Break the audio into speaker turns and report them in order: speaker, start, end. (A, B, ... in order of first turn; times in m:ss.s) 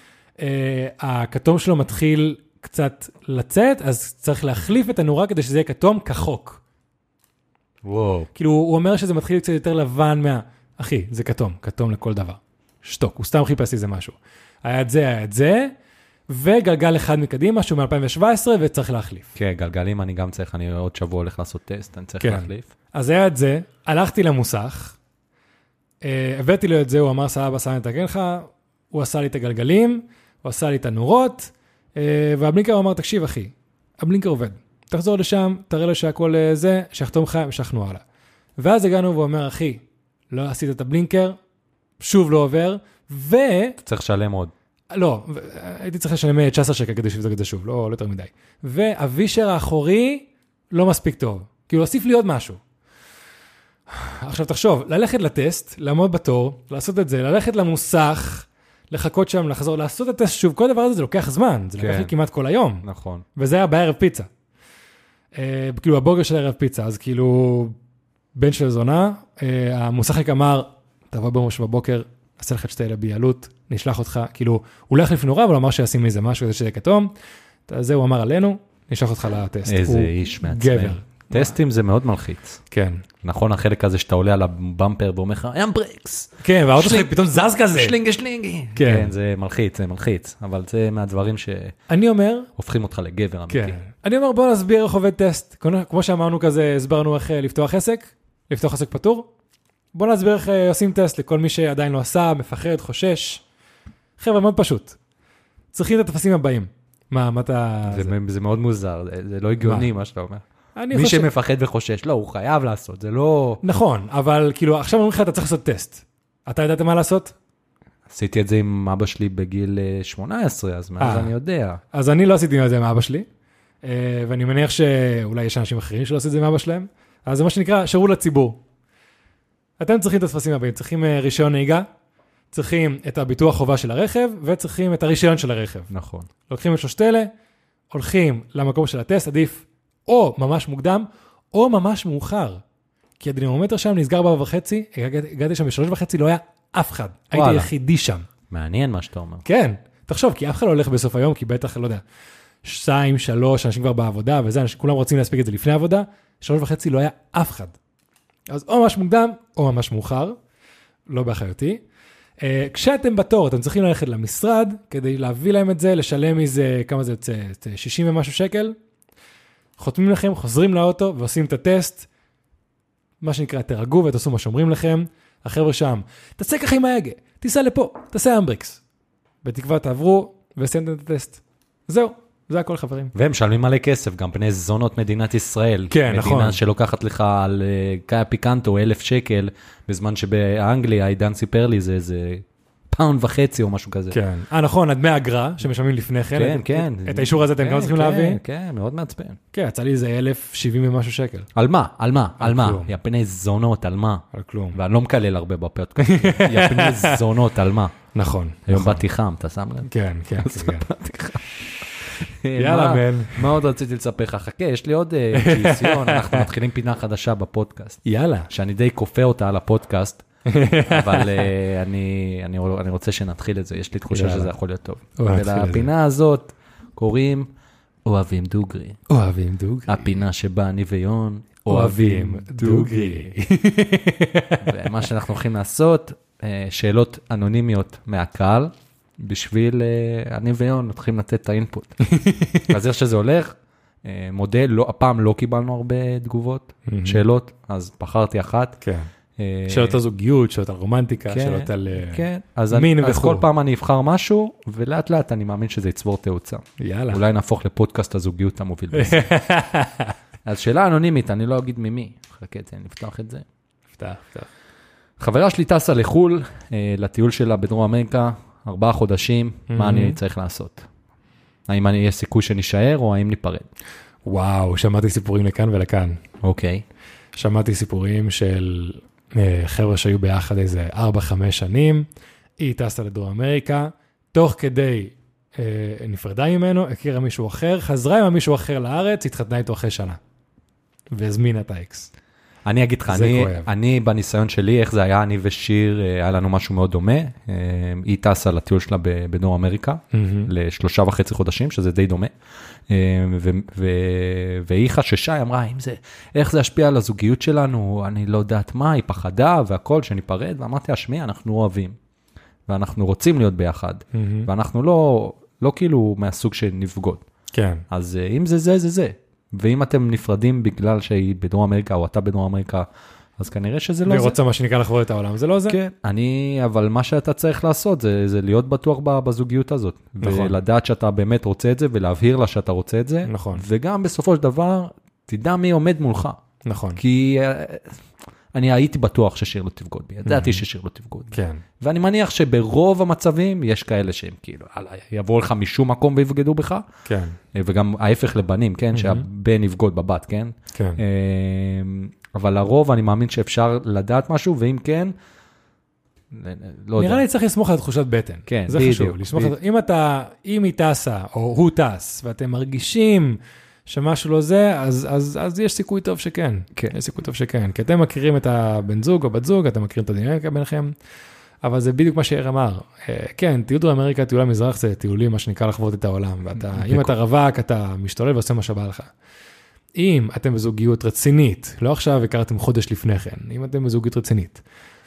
0:00.4-0:06.6 A
0:07.8-0:08.3 B
0:08.3-0:15.7 A
0:16.3-0:19.3 A
0:19.4-0:22.7 B
0:22.2-0:25.0 A
0:26.0-0:38.0 A
0:38.6-0:41.4 A
0:42.0-0:43.8 A
0:43.8-0:44.5 B
0:44.9-0:52.6 A
0:53.9-1:02.8 A
1:01.8-1:02.1 B
1:02.8-1:03.2 B
1:03.4-1:04.3 A
1:05.3-1:07.8 A
1:08.3-1:17.1 A
1:17.7-1:21.6 A
1:19.6-1:22.6 B
1:22.7-1:23.0 A
1:23.2-1:31.8 B
1:26.4-1:28.0 A
1:28.7-1:29.1 A
1:31.9-1:32.5 A
1:32.6-1:33.8 B
1:33.5-1:39.3 A
1:39.9-1:43.4 A
1:44.2-1:45.0 A
1:45.7-1:48.1 A
1:47.9-1:53.6 B
1:49.6-1:49.9 A
1:50.8-1:51.3 A
1:53.6-1:57.3 A
1:58.1-2:01.8 B
2:01.0-2:01.3 A
2:01.9-2:03.3 A
2:03.8-2:08.6 A
2:09.8-2:11.9 A
2:12.5-2:15.9 A
2:15.9-2:16.3 B
2:16.5-2:17.3 A
2:17.9-2:22.6 A
2:23.2-2:28.3 A
2:27.3-2:27.7 B
2:28.5-2:29.4 B
2:29.4-2:32.0 A
2:32.6-2:37.8 A
2:38.5-2:40.4 A
2:41.1-2:41.8 A
2:42.4-2:48.8 A
2:49.8-2:52.1 A
2:53.2-2:58.8 A
2:59.4-3:03.1 A
3:03.1-3:14.2 B
3:05.9-3:06.6 A
3:14.1-3:18.4 A
3:16.3-3:19.4 B
3:19.5-3:21.5 A
3:21.5-3:28.0 B
3:22.4-3:22.9 A
3:24.3-3:24.8 A
3:26.0-3:27.2 A
3:28.1-3:29.0 A
3:28.7-3:40.2 B
3:29.8-3:30.9 A
3:32.5-3:33.6 A
3:35.3-3:36.5 A
3:38.0-3:38.5 A
3:40.5-3:41.5 A
3:40.8-3:47.5 B
3:44.1-3:44.5 A
3:45.2-3:45.9 A
3:48.0-3:49.0 B
3:49.1-3:50.1 A
3:49.9-3:53.3 B
3:51.7-3:54.9 A
3:54.6-4:02.0 B
4:02.0-4:02.7 A
4:02.6-4:08.8 B
4:06.9-4:07.2 A
4:08.8-4:09.1 A
4:09.4-4:10.0 B
4:09.7-4:13.4 A
4:11.3-4:19.4 B
4:16.8-4:17.2 A
4:18.9-4:20.1 A
4:20.4-4:23.4 B
4:24.0-4:24.5 A
4:25.2-4:30.8 B
4:29.7-4:30.2 A
4:31.7-4:33.7 B
4:34.2-4:36.2 A
4:36.4-4:36.8 B
4:37.3-4:42.0 A
4:42.6-4:50.2 A
4:51.1-4:52.1 A
4:52.6-5:02.3 B
4:53.1-4:53.7 A
5:00.1-5:00.5 A
5:02.9-5:12.0 B
5:12.7-5:17.2 B
5:14.1-5:14.5 A
5:17.5-5:17.8 A
5:17.9-5:22.8 B
5:23.4-5:24.4 B
5:24.0-5:25.8 A
5:25.7-5:36.4 B
5:30.2-5:30.6 A
5:33.3-5:33.6 A
5:36.6-5:37.0 A
5:37.0-5:37.9 B
5:38.5-5:46.8 B
5:40.2-5:40.6 A
5:41.3-5:41.6 A
5:47.0-5:47.4 A
5:47.5-5:55.1 B
5:48.9-5:49.2 A
5:50.7-5:51.0 A
5:56.3-5:57.2 B
5:57.0-6:10.9 A
5:58.5-5:59.5 B
6:11.6-6:19.1 A
6:16.6-6:17.1 B
6:20.0-6:24.6 A